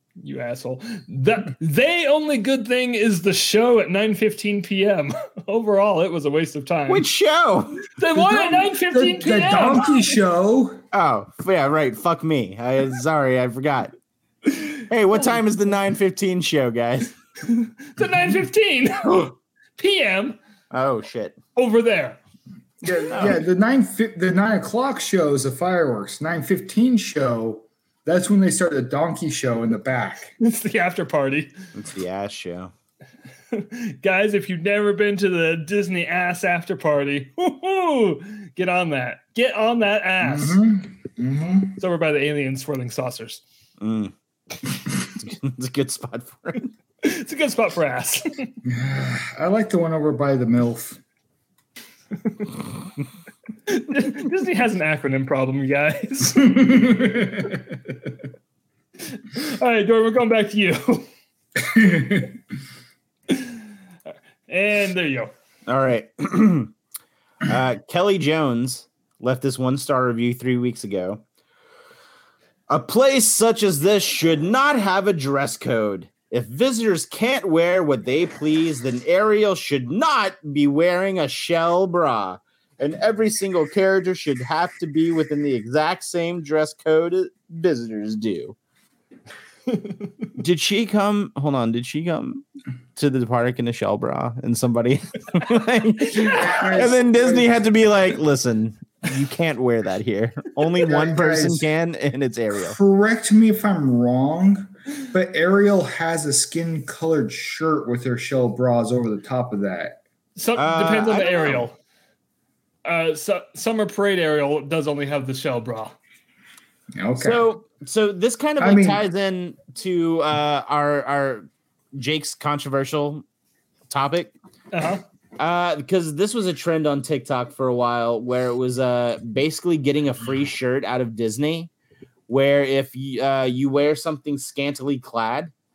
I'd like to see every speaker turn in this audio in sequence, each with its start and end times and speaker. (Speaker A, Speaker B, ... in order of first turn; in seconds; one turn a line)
Speaker A: 0.2-7.1
Speaker B: 6.9-7.8
Speaker A: 7.9-10.0
Speaker C: 8.2-10.8
Speaker B: 10.9-13.9
Speaker B: 14.9-17.1
Speaker A: 17.4-20.4
Speaker B: 20.7-21.4
Speaker A: 21.6-22.2
Speaker C: 22.8-30.3
Speaker B: 23.1-23.4
Speaker A: 30.4-31.5
Speaker B: 31.8-32.7
Speaker A: 33.5-40.6
Speaker C: 40.2-41.8
Speaker A: 41.8-43.4
Speaker B: 43.8-44.1
Speaker B: 45.0-46.7
Speaker A: 47.0-48.5
Speaker C: 48.6-51.0
Speaker A: 53.7-57.2
Speaker C: 56.4-57.6
Speaker A: 59.1-61.1
Speaker C: 61.6-62.3
Speaker A: 64.5-65.3
Speaker B: 65.7-66.7
Speaker B: 67.5-71.2
Speaker B: 72.7-88.6
Speaker B: 90.4-92.4
Speaker B: 93.0-102.8
Speaker C: 96.2-97.6
Speaker C: 100.8-101.7
Speaker C: 102.6-110.0
Speaker A: 110.4-111.8
Speaker B: 110.6-111.7
Speaker A: 112.8-116.0
Speaker C: 117.0-117.4
Speaker B: 117.2-123.2
Speaker C: 118.6-119.0
Speaker B: 123.9-124.3
Speaker A: 124.7-125.0
Speaker B: 125.4-131.7
Speaker B: 132.3-135.5